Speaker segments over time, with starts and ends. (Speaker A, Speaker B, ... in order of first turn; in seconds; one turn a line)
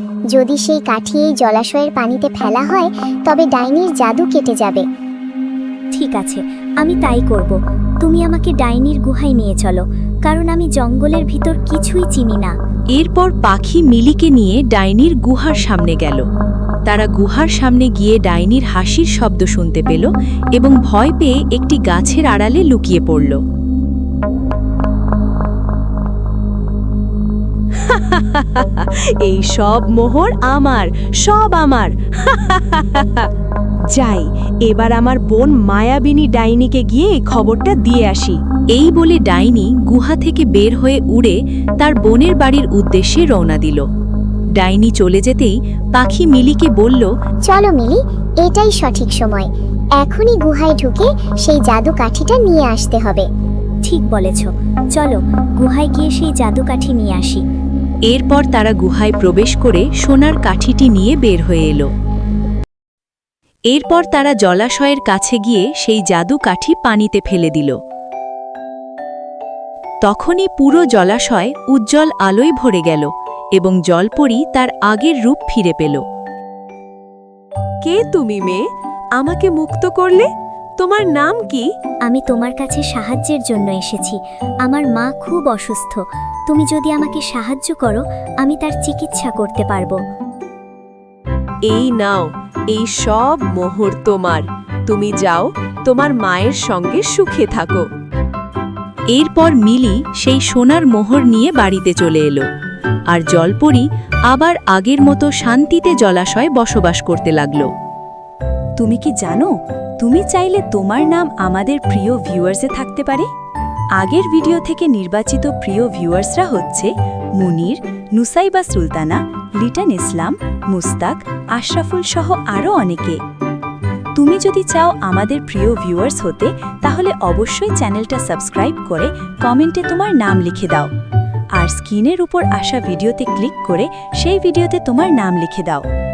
Speaker A: 0.3-4.9
Speaker B: 5.9-12.5
Speaker C: 12.9-16.2
Speaker C: 16.9-23.4
Speaker D: 27.7-33.3
Speaker D: 33.9-38.4
Speaker C: 38.7-43.9
Speaker C: 44.6-47.1
Speaker A: 47.5-53.3
Speaker B: 53.9-57.4
Speaker C: 58.1-61.9
Speaker C: 63.7-67.8
Speaker C: 70.0-76.0
Speaker D: 77.8-78.6
Speaker D: 79.2-80.3
Speaker D: 80.8-81.7
Speaker B: 82.1-90.0
Speaker D: 91.7-97.9
Speaker C: 99.1-102.5
Speaker C: 103.1-107.7
Speaker C: 108.8-113.3
Speaker C: 114.0-123.2
Speaker C: 124.2-130.9
Speaker C: 131.6-135.9